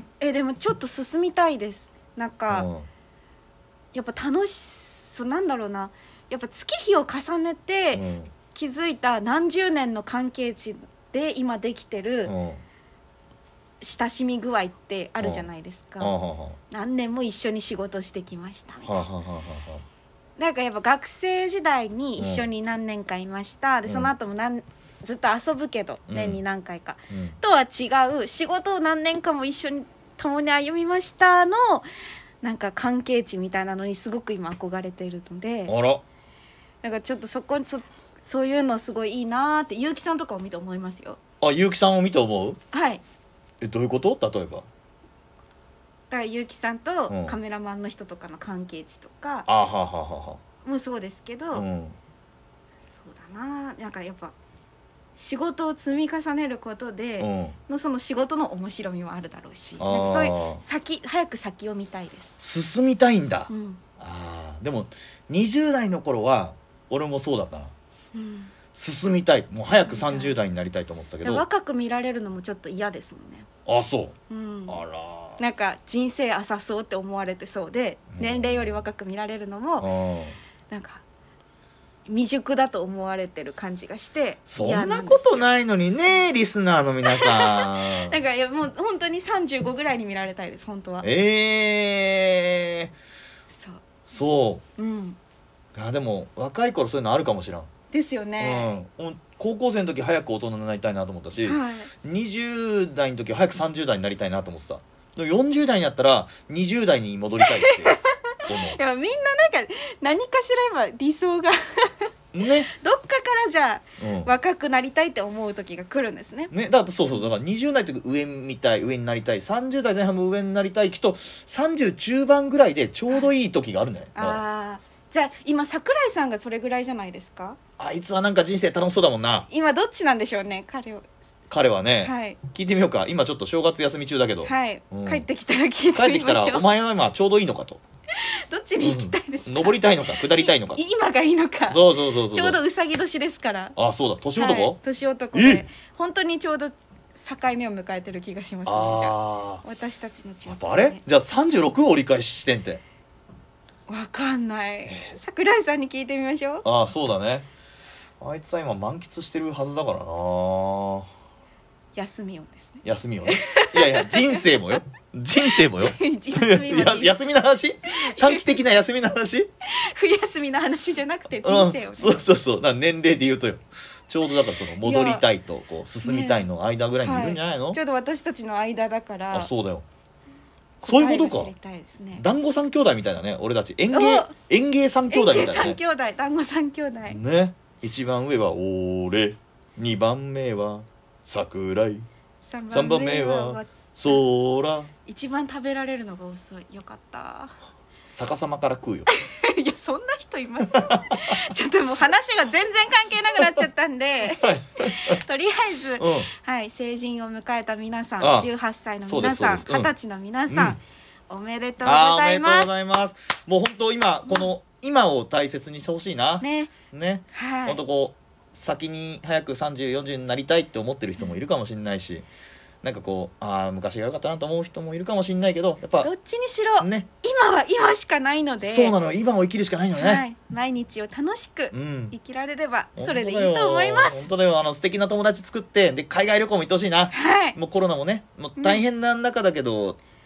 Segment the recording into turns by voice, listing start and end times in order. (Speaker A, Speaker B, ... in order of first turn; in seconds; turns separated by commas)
Speaker A: 0.2-2.7, Speaker B: 2.5-2.9, Speaker A: 3.9-12.3, Speaker B: 7.9-8.3, Speaker B: 12.2-12.6, Speaker A: 13.8-16.2, Speaker B: 15.2-15.5, Speaker B: 16.0-16.6, Speaker A: 16.7-19.1, Speaker B: 18.8-19.8, Speaker A: 20.4-31.9, Speaker B: 22.2-22.5, Speaker B: 23.9-24.1, Speaker B: 26.1-26.4, Speaker B: 27.1-27.4, Speaker A: 32.4-35.7, Speaker B: 35.7-36.0, Speaker A: 36.8-41.2, Speaker B: 41.4-42.6, Speaker A: 42.7-43.0, Speaker B: 43.6-44.6, Speaker A: 46.1-49.5, Speaker B: 47.1-47.4, Speaker B: 49.5-50.4, Speaker A: 50.6-51.6, Speaker B: 51.5-52.0, Speaker A: 53.0-54.3, Speaker A: 55.1-62.4, Speaker B: 57.2-57.6, Speaker B: 59.8-60.6, Speaker B: 62.4-67.7, Speaker A: 63.5-63.8, Speaker A: 68.1-68.5, Speaker B: 68.7-71.4, Speaker A: 69.8-70.3, Speaker A: 71.2-73.5, Speaker B: 73.7-74.2, Speaker A: 74.3-74.8, Speaker B: 74.7-75.4, Speaker A: 75.4-79.9, Speaker B: 78.1-78.8, Speaker B: 79.8-80.4, Speaker A: 80.7-81.0, Speaker A: 82.0-85.5, Speaker B: 84.5-88.2, Speaker A: 87.0-91.0, Speaker B: 91.0-92.9, Speaker A: 93.6-93.9, Speaker B: 94.1-94.6, Speaker A: 94.8-95.2, Speaker B: 95.7-97.7, Speaker A: 97.9-98.8, Speaker B: 98.4-108.8, Speaker A: 101.4-101.9, Speaker A: 107.4-112.1, Speaker B: 112.3-112.7, Speaker A: 112.7-116.5, Speaker B: 114.0-114.3, Speaker B: 116.5-124.4, Speaker A: 124.1-127.6, Speaker B: 127.8-129.5, Speaker A: 129.5-131.1, Speaker B: 131.5-135.3, Speaker A: 132.0-132.4, Speaker A: 134.4-136.6, Speaker B: 135.9-137.8, Speaker A: 138.1-143.7, Speaker B: 138.8-140.8, Speaker B: 141.7-142.6, Speaker B: 143.8-144.8, Speaker A: 144.3-151.0, Speaker B: 145.3-145.6, Speaker B: 148.7-149.6, Speaker B: 150.5-152.8, Speaker A: 153.9-156.6, Speaker B: 154.9-155.2, Speaker B: 156.6-157.5, Speaker B: 158.2-161.1, Speaker A: 161.9-164.6, Speaker B: 162.8-169.5, Speaker A: 165.4-167.1, Speaker A: 168.1-168.4, Speaker A: 169.7-172.2, Speaker B: 171.4-177.8, Speaker A: 174.8-175.2, Speaker A: 176.0-176.5, Speaker A: 177.0-179.5, Speaker B: 179.3-179.8, Speaker B: 180.8-181.5, Speaker A: 180.8-182.2, Speaker B: 182.2-185.8, Speaker A: 183.9-184.3, Speaker A: 185.1-187.2, Speaker B: 187.1-192.1, Speaker A: 192.5-194.2, Speaker B: 192.7-194.9, Speaker A: 195.1-197.6, Speaker B: 198.0-199.1, Speaker A: 199.1-212.7, Speaker B: 200.7-201.3, Speaker B: 204.3-205.2, Speaker B: 206.0-206.3, Speaker B: 208.2-208.5, Speaker B: 209.0-209.9, Speaker B: 210.5-210.8, Speaker B: 211.8-222.3, Speaker A: 216.4-216.7, Speaker A: 217.3-217.8, Speaker B: 222.8-226.1, Speaker A: 226.0-228.9, Speaker B: 226.8-227.1, Speaker B: 228.6-230.2, Speaker A: 229.9-234.3, Speaker B: 231.7-232.2, Speaker B: 232.9-240.0, Speaker A: 237.1-237.6, Speaker A: 238.6-238.8